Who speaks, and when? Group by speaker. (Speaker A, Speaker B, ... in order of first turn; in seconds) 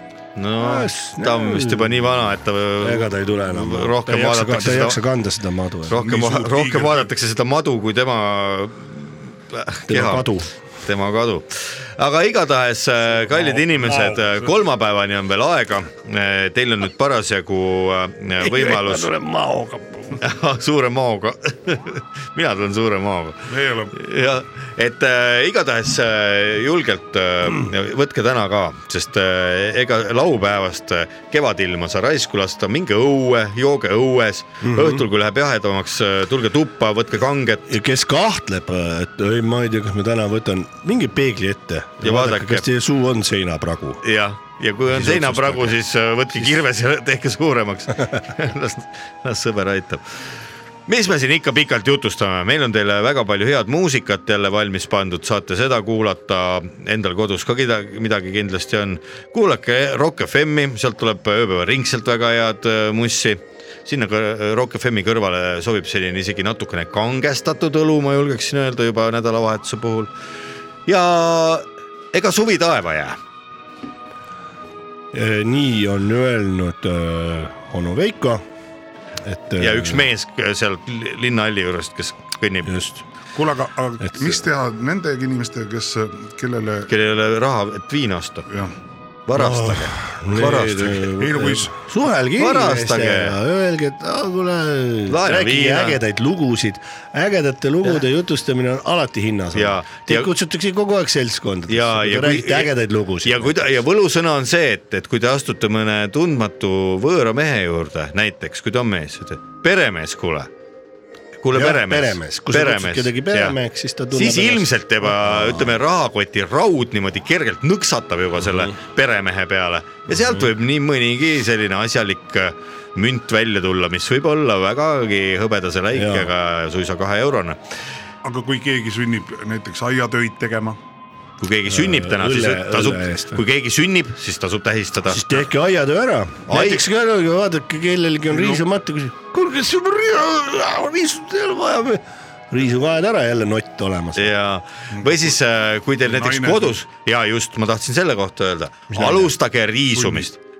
Speaker A: 0.4-5.0, 5.9-10.3, 10.8-19.1, 20.2-37.7, 42.0-42.7, 44.0-50.2, 50.9-70.1, 70.9-73.2, 79.6-82.7, 86.9-88.5, 89.3-91.1, 92.4-93.4, 95.1-96.0, 99.5-100.3, 101.7-110.5, 111.4-113.6, 114.1-127.6, 131.4-135.5, 136.5-136.8, 144.2-150.4
Speaker B: 0.6-6.0, 9.9-10.5, 18.4-20.2, 34.6-35.0, 37.7-44.0, 44.9-45.8, 75.1-78.4, 79.2-80.1, 82.7-83.0, 89.3-103.6, 111.5-115.8, 120.1-120.4, 125.9-126.3, 131.7-133.4, 135.1-144.3, 148.9-149.3
Speaker C: 6.0-7.1, 13.2-14.5, 23.5-24.0, 83.3-86.9, 88.5-88.7, 91.2-91.7, 128.2-130.8, 138.3-138.6, 144.9-145.2, 146.1-146.8, 150.0-150.2